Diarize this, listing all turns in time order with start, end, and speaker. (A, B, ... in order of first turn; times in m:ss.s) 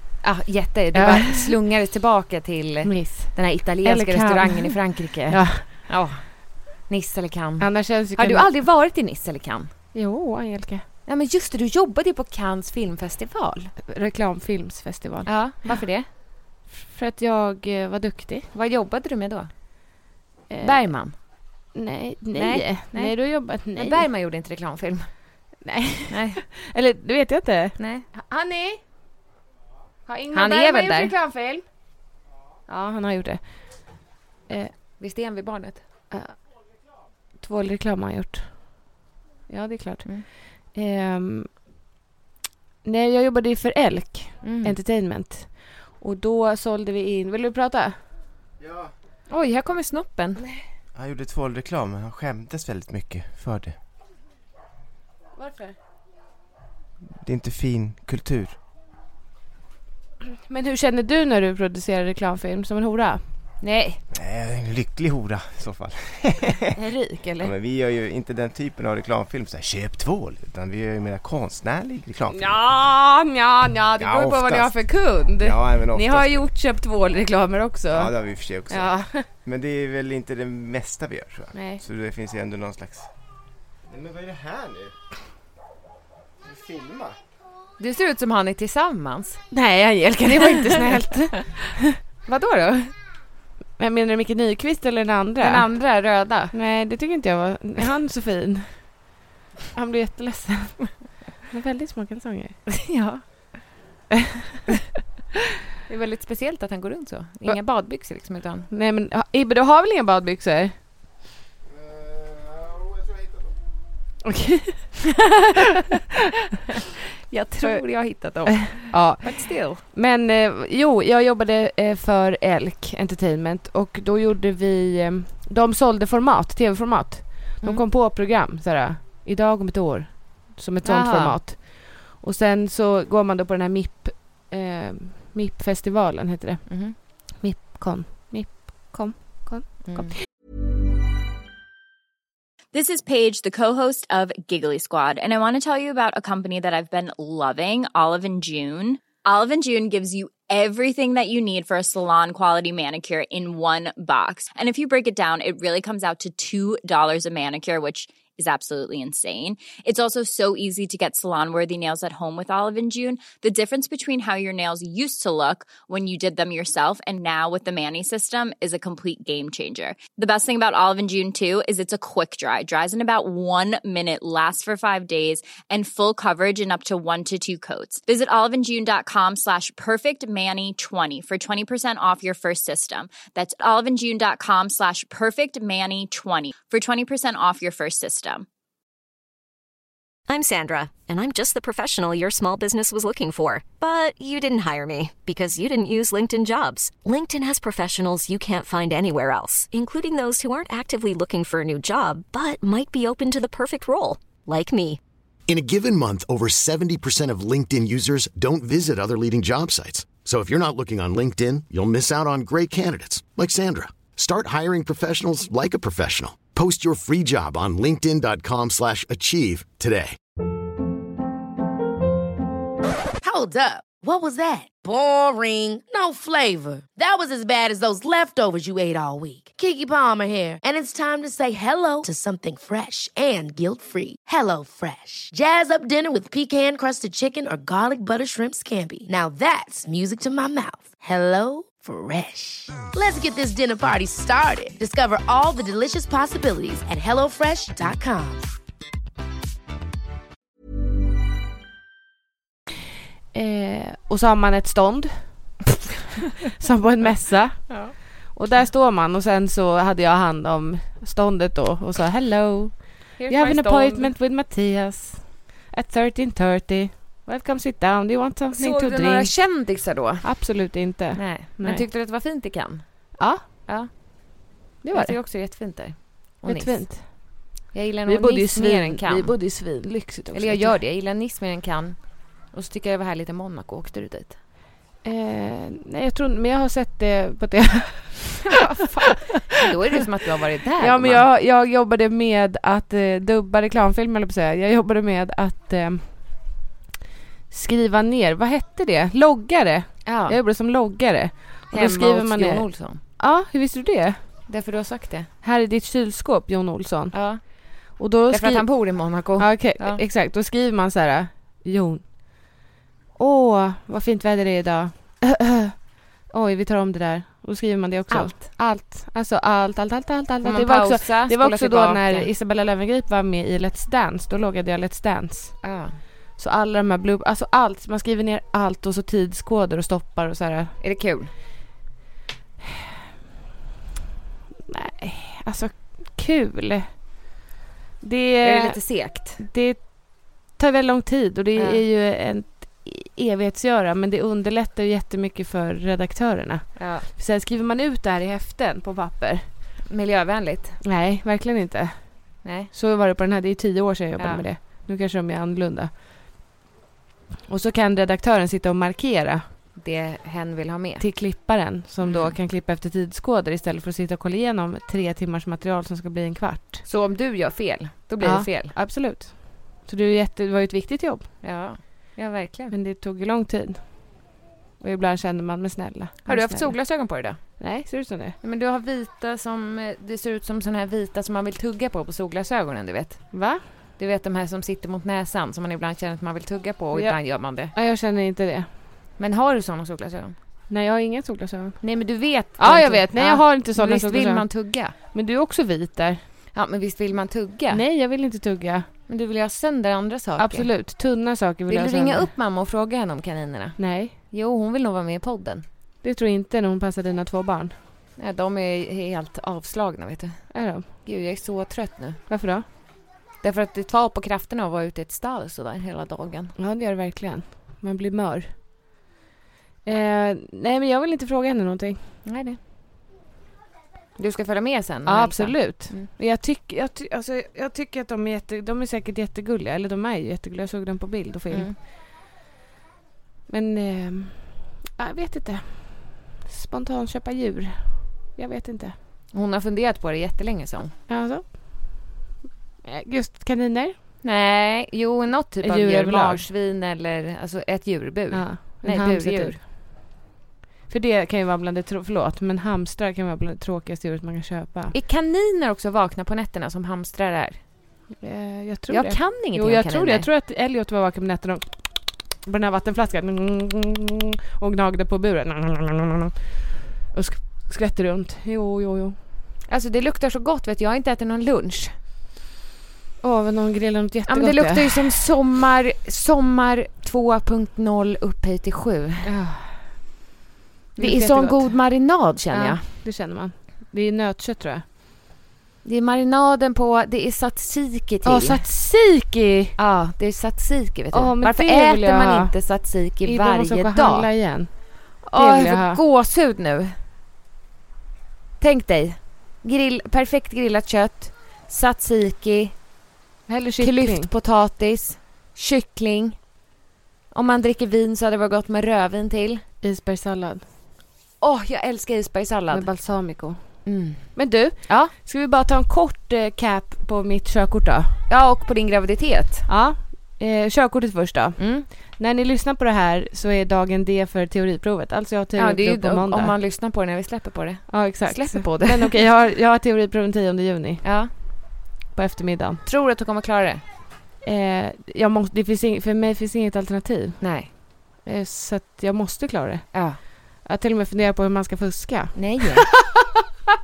0:00.2-0:09.7 A
0:00.9-0:01.5 B
0:02.8-0:05.7 B
0:07.6-0:08.5 B
0:09.9-0:10.8 B
0:11.1-0:13.7 A
0:13.8-0:15.8 B
0:15.2-0:16.0 A
0:16.7-0:18.5 B
0:18.5-0:19.5 A
0:20.5-0:20.8 B
0:20.6-0:21.1 A
0:21.7-0:24.1 B
0:22.3-0:25.1 A
0:25.6-0:28.8 B
0:26.1-0:26.4 A
0:27.8-0:28.1 A
0:30.1-0:31.6 B
0:30.3-0:31.1 A
0:32.7-0:33.9 B
0:34.5-0:34.7 B
0:35.0-0:35.8 A
0:37.4-0:38.8 B
0:39.5-0:41.5 B
0:42.8-0:47.9 B
0:44.4-0:44.8 A
0:48.6-0:48.9 C
0:49.3-0:50.4 A
0:50.9-0:53.8 C
0:55.4-0:55.8 B
0:57.2-0:58.6 C
1:00.3-1:03.2 B
1:03.6-1:04.0 A
1:04.1-1:06.7 C
1:06.7-1:07.5 B
1:07.4-1:12.6 C
1:12.3-1:18.1 B
1:14.0-1:14.8 C
1:15.4-1:16.4 C
1:17.9-1:18.9 C
1:18.7-1:19.2 B
1:19.4-1:23.1 C
1:21.5-1:21.8 B
1:23.9-1:25.0 C
1:26.4-1:27.2 C
1:27.8-1:29.4 A
1:29.5-1:32.0 B
1:30.4-1:31.0 A
1:32.2-1:32.9 A
1:33.8-1:35.7 B
1:35.4-1:36.5 A
1:36.5-1:39.1 B
1:39.7-1:42.6 B
1:42.7-1:43.2 A
1:45.8-1:48.7 A
1:48.7-1:50.7 B
1:51.8-1:53.5 C
1:54.2-1:55.0 B
1:57.3-1:59.8 A
1:57.6-1:57.8 B
1:58.6-2:20.2 B
2:10.8-2:11.4 A
2:16.7-2:17.0 A
2:19.8-2:20.2 A
2:22.7-3:08.4 D
3:10.3-3:25.0 E
3:25.5-3:40.2 F
3:43.2-4:08.5 G
4:13.3-4:15.6 B
4:16.4-4:29.4 B
4:17.7-4:17.9 A
4:23.2-4:24.1 A
4:28.5-4:39.5 A
4:30.2-4:31.8 B
4:34.8-4:35.2 B
4:36.4-4:37.1 B
4:38.0-4:40.8 B
4:40.3-4:44.4 A
4:45.0-4:48.6 B
4:48.4-4:51.2 A
4:50.8-4:56.1 B
4:57.5-5:04.2 B
5:00.0-5:00.4 A
5:01.7-5:03.0 A
5:04.5-5:05.3 A
5:05.4-5:12.0 B
5:07.1-5:10.0 A
5:13.2-5:15.7 B
5:16.3-5:25.6 B
5:18.1-5:18.4 A
5:20.4-5:22.3 A
5:25.6-5:26.0 A
5:26.4-5:30.7 B
5:30.8-5:31.3 A
5:34.7-5:36.9 B
5:38.0-5:38.8 B
5:38.4-5:39.4 A
5:39.4-5:49.4 B
5:41.6-5:41.8 A
5:46.8-5:47.1 A
5:49.9-5:50.8 A
5:50.8-5:55.9 B
5:52.4-5:52.7 A
5:54.2-5:54.4 A
5:57.5-5:59.4 B
5:59.8-6:01.0 A
6:01.0-6:06.8 B
6:02.0-6:02.4 A
6:06.8-6:08.8 A
6:08.2-6:11.3 B
6:11.4-6:12.7 A
6:12.7-6:14.2 B
6:14.8-6:16.8 B
6:16.2-6:17.5 A
6:17.6-6:18.4 B
6:18.4-6:27.7 A
6:23.3-6:23.6 B
6:26.9-6:28.7 B
6:29.2-6:30.3 A
6:30.7-6:31.8 B
6:31.8-6:34.9 A
6:32.6-6:36.2 B
6:36.5-6:37.8 A
6:37.7-6:38.9 B
6:39.1-6:40.7 A
6:40.4-6:42.3 B
6:41.7-6:45.6 A
6:43.8-6:44.1 B
6:46.0-6:47.7 B
6:48.2-6:52.2 A
6:50.5-6:50.8 B
6:52.3-6:52.6 B
6:53.4-6:56.5 A
6:56.6-6:58.5 B
6:59.8-7:02.0 B
7:02.2-7:02.6 A
7:04.2-7:06.1 A
7:05.0-7:11.7 B
7:11.5-7:11.8 A
7:13.5-7:19.0 B
7:19.3-7:20.9 A
7:21.1-7:22.0 B
7:22.8-7:23.9 B
7:24.2-7:29.6 A
7:25.6-7:26.4 B
7:28.3-7:29.6 B
7:30.9-7:34.9 B
7:34.9-7:37.6 A
7:38.2-7:46.5 B
7:38.9-7:40.3 A
7:47.1-7:49.2 B
7:49.7-7:51.9 A
7:53.2-7:55.1 B
7:54.3-7:59.3 A
7:59.2-8:00.0 B
8:01.0-8:02.9 A
8:01.0-8:01.8 B
8:02.5-8:04.8 B
8:05.8-8:08.6 A
8:08.2-8:09.8 B
8:09.8-8:14.3 A
8:11.1-8:12.5 B
8:13.2-8:16.0 B
8:15.3-8:17.0 A
8:18.6-8:22.8 A
8:23.5-8:24.3 B
8:23.8-8:26.4 A
8:27.3-8:29.6 A
8:29.8-8:30.6 B
8:31.4-8:32.9 A
8:32.7-8:38.2 B
8:33.8-8:35.1 A
8:38.3-8:39.7 A
8:39.7-8:46.5 B
8:41.6-8:41.9 A
8:45.6-8:49.2 A
8:47.9-8:51.0 B
8:51.0-8:51.3 A
8:52.1-8:52.8 B
8:52.8-8:53.8 A
8:54.4-8:57.5 B
8:57.4-8:57.7 A
8:58.2-9:03.3 B
8:59.9-9:00.2 A
9:02.3-9:02.9 A